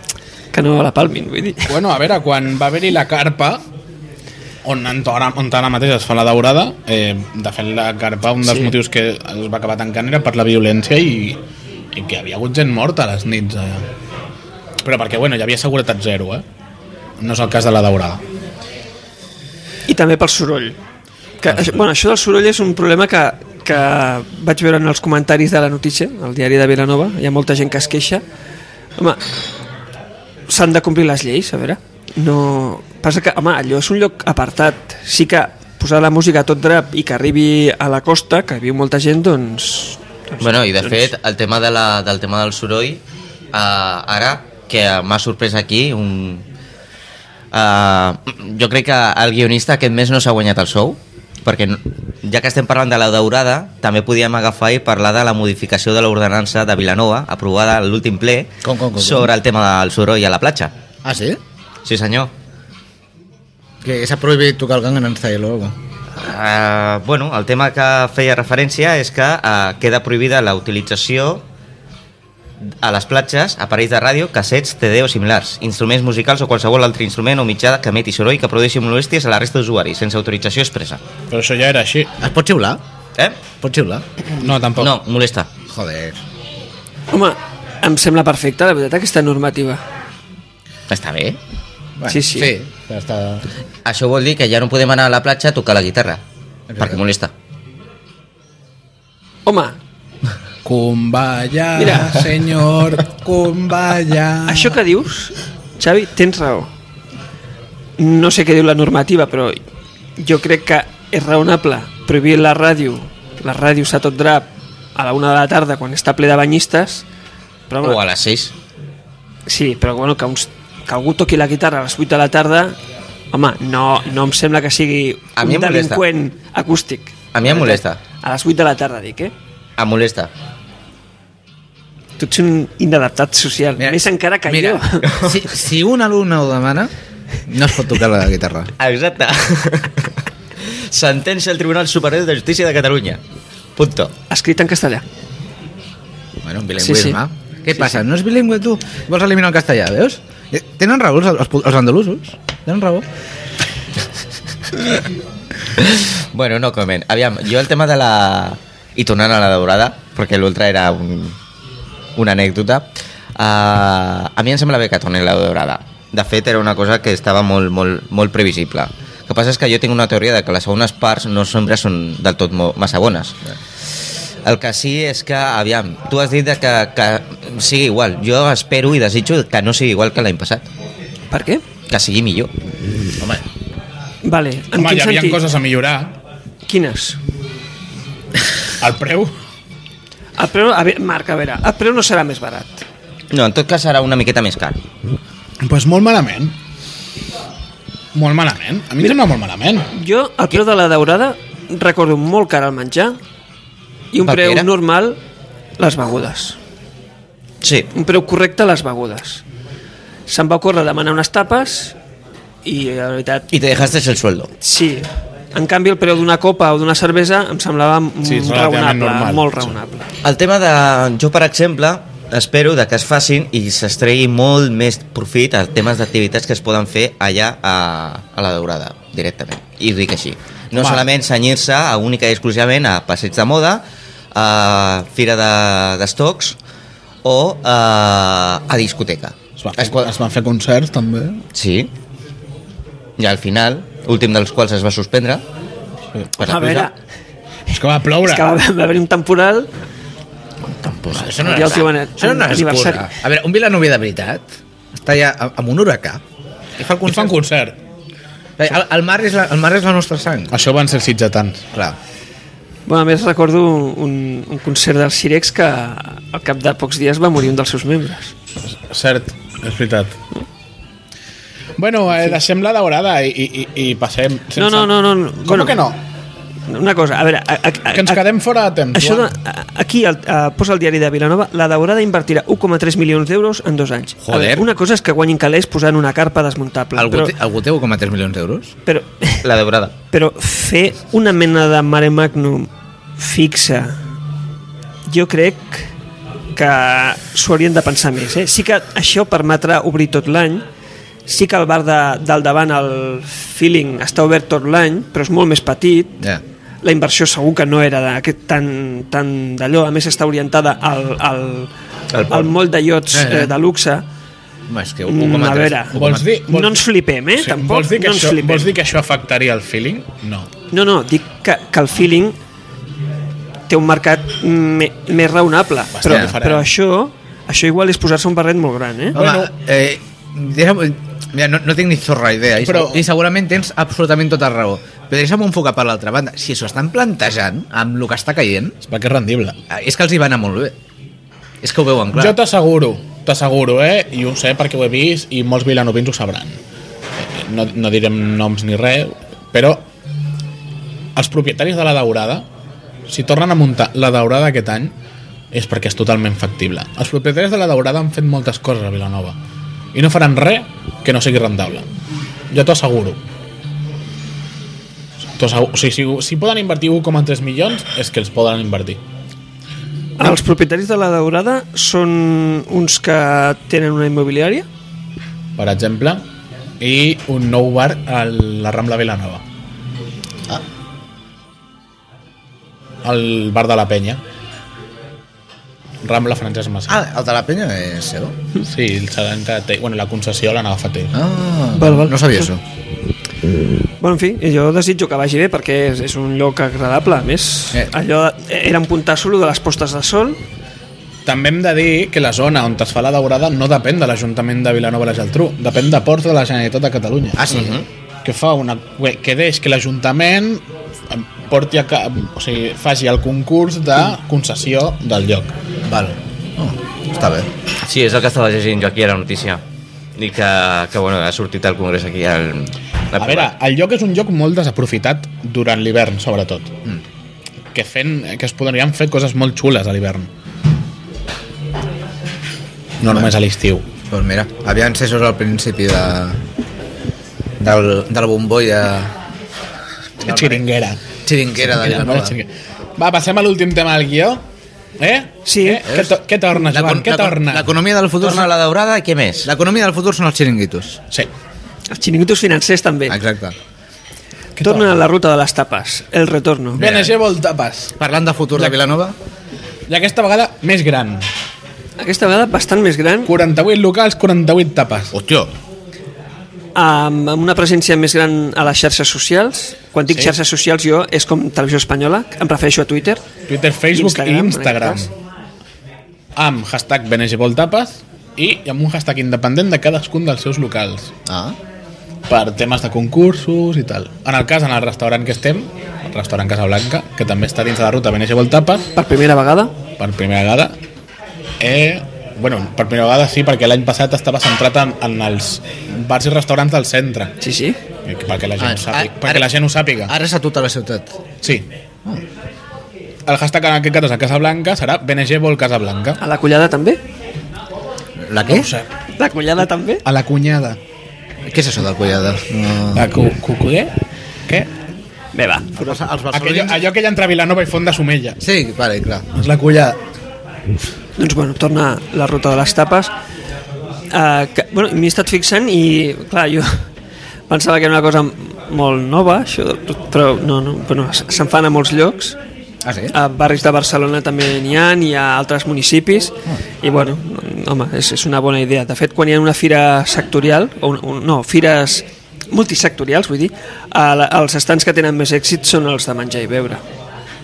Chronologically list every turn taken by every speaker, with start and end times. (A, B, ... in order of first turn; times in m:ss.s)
0:00.5-0:01.8 A
0:01.7-0:03.6 B
0:04.6-0:11.4 B
0:08.4-0:08.7 A
0:11.9-0:13.8 B
0:14.8-0:16.4 B
0:17.2-0:18.2 B
0:19.9-0:20.8 A
0:21.4-0:28.2 A
0:21.5-0:21.8 B
0:29.0-0:29.2 A
0:30.5-0:41.1 A
0:40.4-0:43.0 C
0:43.5-0:46.4 C
0:47.5-1:00.7 C
0:58.6-0:59.3 D
1:01.0-1:01.4 D
1:01.8-1:02.3 C
1:03.8-1:05.7 D
1:06.2-1:11.4 C
1:12.8-1:21.0 C
1:21.3-1:22.1 B
1:22.2-1:22.8 D
1:23.6-1:24.0 D
1:24.4-1:24.9 B
1:24.8-1:25.5 C
1:25.7-1:26.2 D
1:27.1-1:29.8 A
1:30.9-1:31.4 C
1:32.0-1:33.5 D
1:32.1-1:32.5 A
1:33.8-1:36.2 C
1:36.7-1:37.0 D
1:36.8-1:37.3 C
1:39.4-1:39.8 A
1:40.6-1:44.8 B
1:41.8-1:42.2 A
1:44.4-1:46.7 A
1:48.0-1:49.6 A
1:50.2-1:57.0 A
1:57.7-1:58.0 A
1:57.8-1:58.5 C
1:59.5-2:02.8 A
2:03.3-2:09.3 A
2:05.4-2:06.0 C
2:07.3-2:08.0 C
2:09.8-2:10.3 C
2:12.2-2:15.1 A
2:13.8-2:16.9 D
2:15.1-2:15.4 C
2:17.4-2:18.7 D
2:18.8-2:23.2 C
2:23.8-2:24.1 C
2:24.3-2:25.0 A
2:26.4-2:33.0 D
2:26.8-2:27.2 A
2:35.8-2:41.4 C
2:42.2-2:53.4 C
2:54.4-3:00.7 C
3:01.3-3:01.6 A
3:01.9-3:02.5 C
3:04.2-3:05.4 A
3:04.7-3:06.2 B
3:06.7-3:07.2 A
3:08.8-3:09.3 B
3:10.4-3:12.8 A
3:13.3-3:14.8 C
3:15.6-3:16.5 B
3:18.1-3:19.9 B
3:19.9-3:23.2 A
3:24.1-3:25.2 A
3:24.2-3:24.7 C
3:25.8-3:26.6 A
3:27.6-3:27.9 C
3:27.9-3:29.4 A
3:30.3-3:31.9 A
3:32.6-3:33.5 A
3:33.5-3:34.5 C
3:34.6-3:40.1 A
3:38.2-3:39.8 B
3:40.2-3:56.6 C
3:50.7-3:51.0 B
3:57.2-4:00.1 C
3:59.6-4:01.4 B
4:01.5-4:01.9 C
4:03.2-4:05.4 C
4:06.4-4:06.9 C
4:06.4-4:06.9 A
4:07.7-4:08.5 B
4:08.2-4:09.7 A
4:10.6-4:11.8 C
4:11.1-4:14.4 D
4:11.4-4:13.1 A
4:15.0-4:16.2 D
4:16.8-4:17.4 D
4:17.0-4:17.8 B
4:18.6-4:20.6 D
4:20.5-4:21.6 B
4:22.9-4:28.3 A
4:28.9-4:30.1 B
4:31.8-4:36.0 B
4:34.6-4:35.8 A
4:36.7-4:38.2 A
4:37.9-4:39.3 B
4:38.9-4:47.3 A
4:44.2-4:44.6 D
4:46.9-4:48.7 D
4:48.9-4:49.4 A
4:49.4-4:49.9 C
4:50.1-4:54.0 A
4:55.1-4:55.9 A
4:56.5-5:00.6 A
5:01.3-5:06.2 A
5:06.8-5:11.7 A
5:12.1-5:12.5 C
5:12.3-5:14.0 A
5:13.1-5:13.5 D
5:14.7-5:16.4 D
5:15.0-5:18.7 A
5:15.9-5:20.5 B
5:20.7-5:22.4 A
5:23.7-5:29.2 A
5:25.9-5:26.7 B
5:26.0-5:26.3 D
5:29.1-5:29.5 B
5:29.1-5:38.8 D
5:32.6-5:33.0 B
5:38.8-5:39.6 B
5:39.7-5:40.8 D
5:41.6-5:42.4 D
5:42.1-5:46.6 B
5:47.2-5:49.9 B
5:51.2-5:52.4 B
5:53.1-5:54.9 B
5:55.5-5:59.4 B
5:59.9-6:01.8 B
6:02.5-6:03.2 B
6:05.4-6:09.0 B
6:10.2-6:14.6 A
6:15.6-6:16.2 B
6:16.8-6:19.4 B
6:23.0-6:24.2 B
6:26.0-6:27.0 B
6:26.9-6:28.4 D
6:28.6-6:31.1 B
6:31.1-6:32.6 D
6:31.7-6:32.4 A
6:34.0-6:40.4 A
6:41.2-6:47.6 B
6:47.4-6:47.8 D
6:47.5-6:47.8 C
6:48.2-6:55.5 B
6:55.9-6:57.5 D
6:57.8-6:59.6 C
7:00.2-7:03.5 C
7:03.2-7:06.7 B
7:07.7-7:10.3 B
7:13.0-7:13.8 B
7:13.1-7:13.3 D
7:14.1-7:16.4 D
7:17.6-7:19.2 D
7:20.2-7:20.6 D
7:20.2-7:21.0 B
7:21.2-7:22.4 D
7:21.6-7:24.4 B
7:25.0-7:27.7 B
7:25.4-7:25.8 A
7:25.9-7:28.5 D
7:28.2-7:29.5 C
7:29.4-7:31.0 D
7:31.9-7:33.2 A
7:33.1-7:33.6 D
7:34.6-7:35.0 B
7:34.6-7:36.8 A
7:36.7-7:37.1 D
7:36.8-7:37.9 B
7:38.0-7:39.2 D
7:39.9-7:41.2 B
7:42.0-7:43.3 A
7:43.2-7:45.1 B
7:45.1-7:45.5 D
7:46.7-7:53.2 A
7:53.5-7:55.1 B
7:53.9-7:55.1 A
7:56.4-8:01.1 B
8:01.2-8:01.6 D
8:02.3-8:08.9 B
8:08.9-8:09.7 A
8:10.0-8:10.8 B
8:11.6-8:17.4 B
8:17.4-8:17.8 A
8:18.0-8:20.1 B
8:18.6-8:21.2 D
8:21.4-8:21.7 B
8:23.2-8:26.2 B
8:26.2-8:27.0 A
8:28.2-8:28.7 D
8:28.4-8:28.9 B
8:29.2-8:30.0 A
8:30.0-8:30.8 B
8:31.5-8:33.1 D
8:32.9-8:33.9 B
8:35.3-8:36.0 A
8:35.7-8:36.8 D
8:36.3-8:38.4 B
8:38.4-8:39.3 D
8:39.3-8:40.0 B
8:41.2-8:43.1 A
8:44.1-8:46.8 A
8:47.5-8:52.4 A
8:52.8-8:53.1 D
8:53.1-9:06.8 A